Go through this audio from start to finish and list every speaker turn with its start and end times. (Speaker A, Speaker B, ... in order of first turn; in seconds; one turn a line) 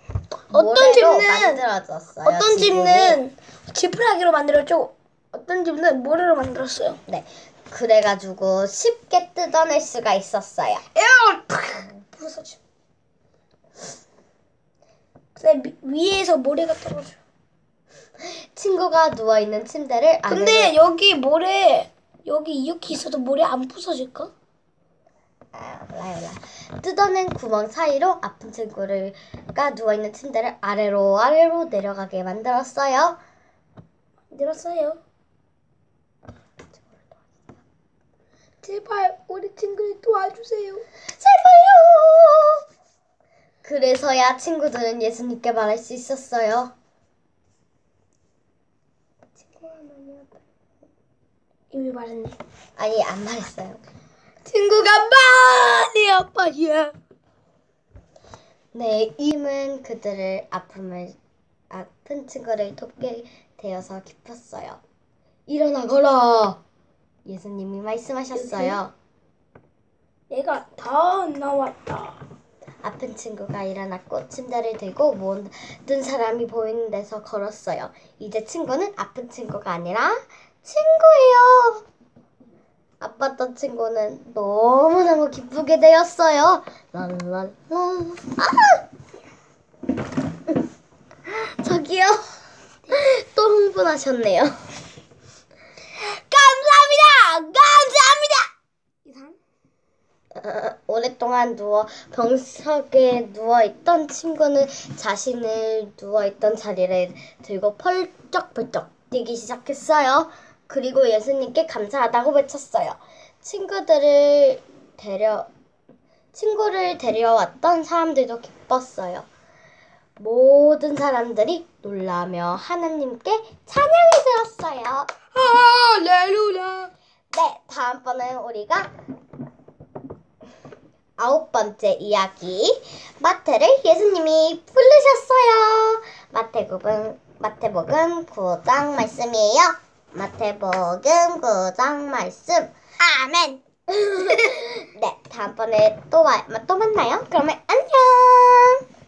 Speaker A: 0.5-1.6
Speaker B: 0.5-3.2
Speaker A: 2.2-7.0
Speaker B: 7.1-10.9
Speaker A: 10.9-12.6
Speaker A: 15.3-17.2
Speaker B: 18.3-20.8
Speaker A: 20.3-24.3
Speaker B: 25.5-33.2
Speaker A: 34.3-35.0
Speaker A: 38.6-40.9
Speaker B: 41.1-42.6
Speaker B: 43.6-46.7
Speaker B: 49.5-50.4
Speaker A: 51.7-52.4
Speaker B: 52.8-53.8
Speaker A: 54.5-56.9
Speaker B: 58.7-61.2
Speaker B: 61.7-64.8
Speaker B: 65.5-66.6
Speaker B: 67.2-68.9
Speaker A: 68.3-68.8
Speaker A: 70.3-72.2
Speaker B: 72.8-81.8
Speaker B: 83.0-88.8
Speaker B: 91.3-92.2
Speaker B: 92.9-94.6
Speaker A: 96.0-98.1
Speaker B: 97.8-98.4
Speaker A: 99.0-99.4
Speaker B: 100.3-115.5
Speaker B: 116.3-119.3
Speaker B: 120.2-125.1
Speaker A: 125.3-126.9
Speaker B: 127.3-128.9
Speaker B: 131.2-148.8